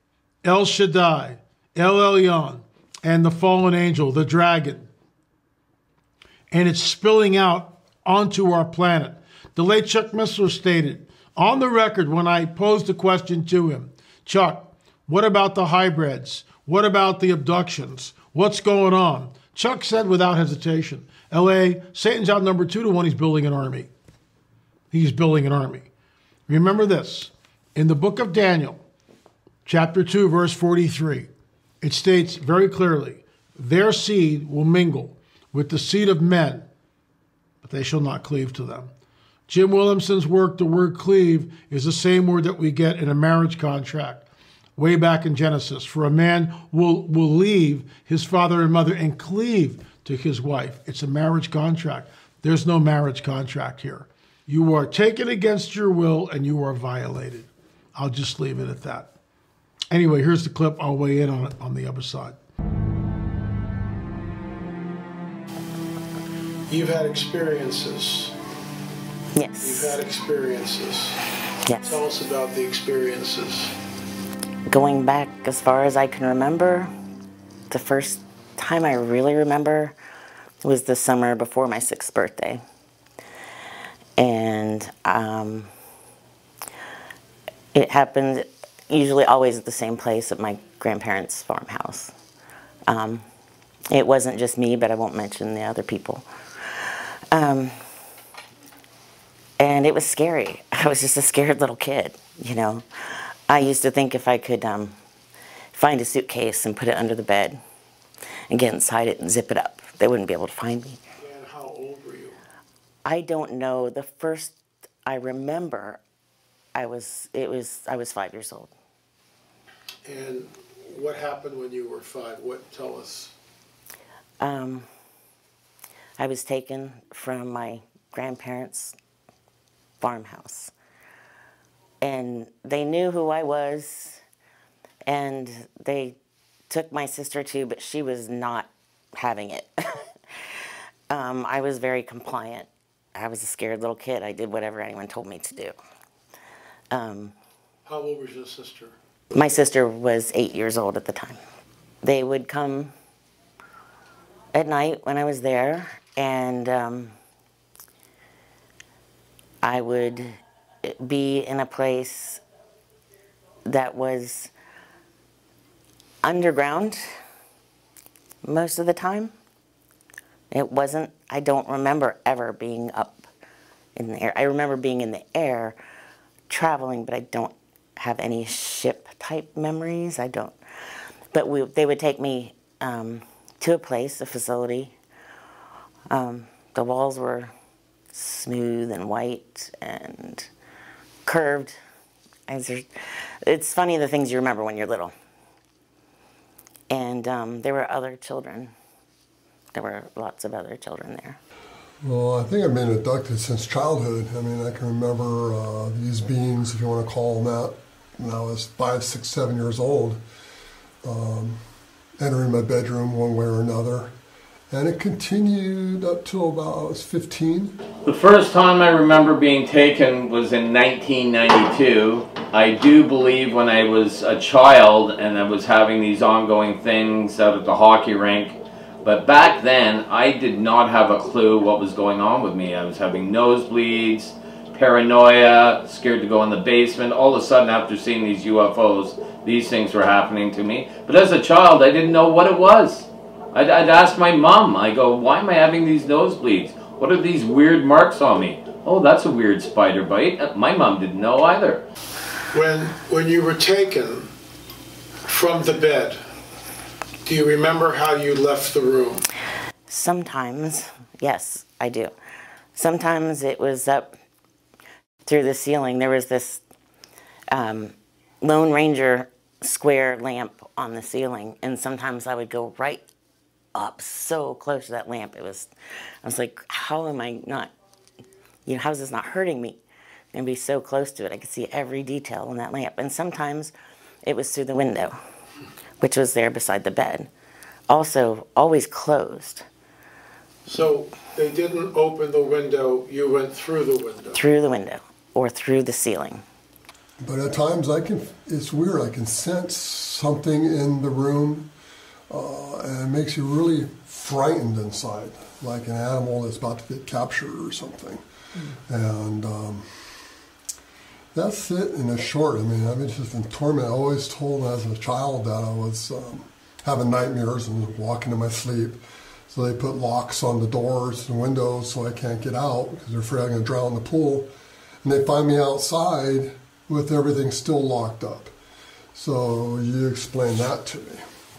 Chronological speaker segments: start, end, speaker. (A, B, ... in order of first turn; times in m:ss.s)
0:00.4-0:04.9 A
0:06.5-0:23.9 A
0:24.9-0:25.9 A
0:26.5-0:28.8 A
0:29.6-0:31.3 A
0:31.8-0:36.7 A
0:37.6-0:38.9 A
0:39.5-0:44.2 A
0:44.8-0:59.1 A
0:59.9-1:02.4 A
1:06.7-1:08.4 A
1:09.4-1:10.0 B
1:09.6-1:11.2 A
1:11.7-1:12.0 B
1:11.8-1:13.7 A
1:14.7-1:16.9 B
1:17.7-1:20.0 B
1:20.6-1:22.6 B
1:24.2-1:25.7 B
1:27.7-1:32.1 B
1:32.9-1:33.2 B
1:33.9-1:36.2 B
1:37.3-1:37.7 B
1:39.6-1:42.8 B
1:43.5-1:45.0 B
1:45.7-1:47.6 B
1:48.5-1:51.0 B
1:51.2-1:52.4 A
1:53.0-1:56.0 B
1:56.8-1:58.7 B
2:00.1-2:03.3 A
2:04.4-2:04.9 B
2:06.2-2:09.0 B
2:10.0-2:10.7 B
2:12.0-2:14.2 B
2:15.1-2:16.2 B
2:16.7-2:19.7 B
2:21.1-2:25.8 B
2:26.9-2:27.4 B
2:27.9-2:28.9 A
2:29.3-2:31.4 B
2:32.0-2:32.9 B
2:34.5-2:37.1 B
2:39.6-2:42.4 B
2:43.7-2:44.5 B
2:46.2-2:47.0 B
2:48.4-2:49.3 B
2:50.5-2:53.3 B
2:54.0-2:55.8 B
2:56.5-3:00.6 B
3:01.3-3:04.9 B
3:06.1-3:07.5 B
3:08.1-3:10.5 B
3:11.3-3:11.8 B
3:12.5-3:12.8 B
3:13.5-3:15.1 B
3:16.9-3:18.7 B
3:19.7-3:21.4 B
3:22.0-3:30.2 C
3:31.0-3:31.6 C
3:32.2-3:34.1 C
3:34.7-3:37.8 C
3:38.1-4:11.8 D
4:12.5-4:14.3 A
4:15.2-4:16.2 A
4:17.2-4:19.2 A
4:19.9-4:22.1 B
4:22.8-4:24.1 B
4:25.2-4:26.6 B
4:27.5-4:33.1 B
4:33.8-4:35.7 B
4:36.2-4:37.7 B
4:38.7-4:39.8 B
4:40.3-4:43.7 B
4:44.2-4:45.2 B
4:46.0-4:47.3 B
4:47.9-4:49.6 B
4:50.7-4:54.4 A
4:54.3-4:56.4 B
4:57.2-5:01.7 C
5:02.3-5:08.2 C
5:08.9-5:09.9 C
5:11.3-5:19.0 C
5:19.5-5:24.5 C
5:25.0-5:28.5 C
5:29.2-5:31.2 C